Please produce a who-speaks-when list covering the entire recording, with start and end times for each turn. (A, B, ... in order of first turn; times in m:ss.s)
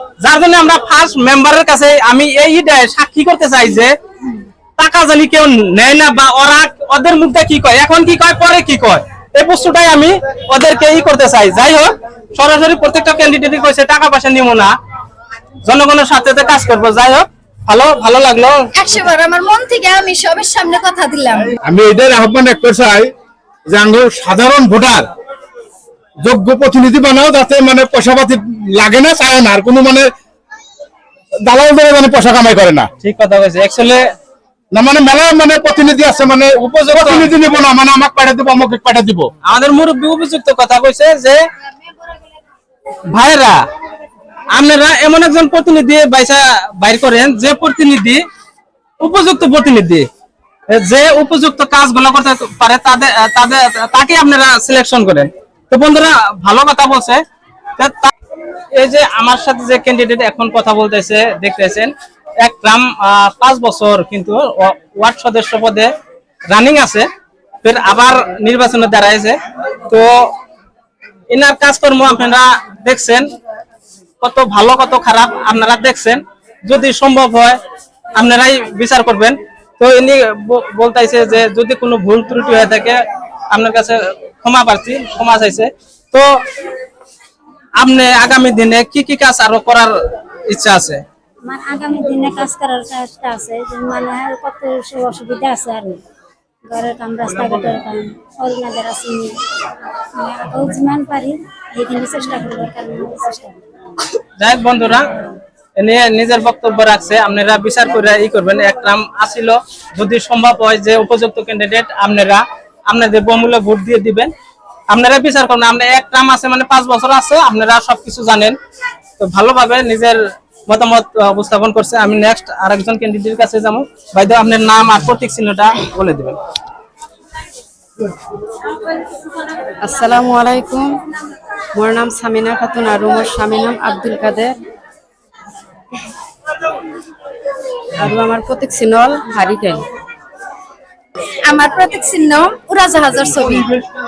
0:00.2-0:04.0 A
0:04.8-0:14.7 A
0:15.6-0:18.6 A
0:18.8-0:21.5 B
0:21.6-0:23.1 C
0:23.7-0:25.1 C
0:26.2-0:30.1 C
0:31.4-0:32.9 C
0:33.0-0:34.1 A
0:34.7-0:39.3 C
0:36.6-0:37.3 A
0:39.4-0:41.4 A
0:43.1-0:43.6 A
0:44.5-0:48.2 A
0:49.0-0:50.1 A
0:50.7-0:57.2 A
0:57.8-0:58.1 A
0:58.7-1:05.9 A
1:06.5-1:07.1 A
1:07.6-1:09.4 A
1:09.9-1:10.3 A
1:11.3-1:13.2 A
1:14.2-1:17.6 A
1:18.2-1:23.0 A
1:23.5-1:26.2 A
1:27.8-1:29.9 A
1:30.5-1:31.0 A
1:31.4-1:36.0 D
1:36.7-1:39.4 D
1:40.1-1:43.6 D
1:44.4-1:45.1 A
1:45.8-1:54.3 A
1:54.9-1:58.6 A
1:59.2-2:06.4 A
2:09.8-2:11.0 E
2:11.7-2:14.5 E
2:18.0-2:19.9 E
2:21.4-2:23.6 B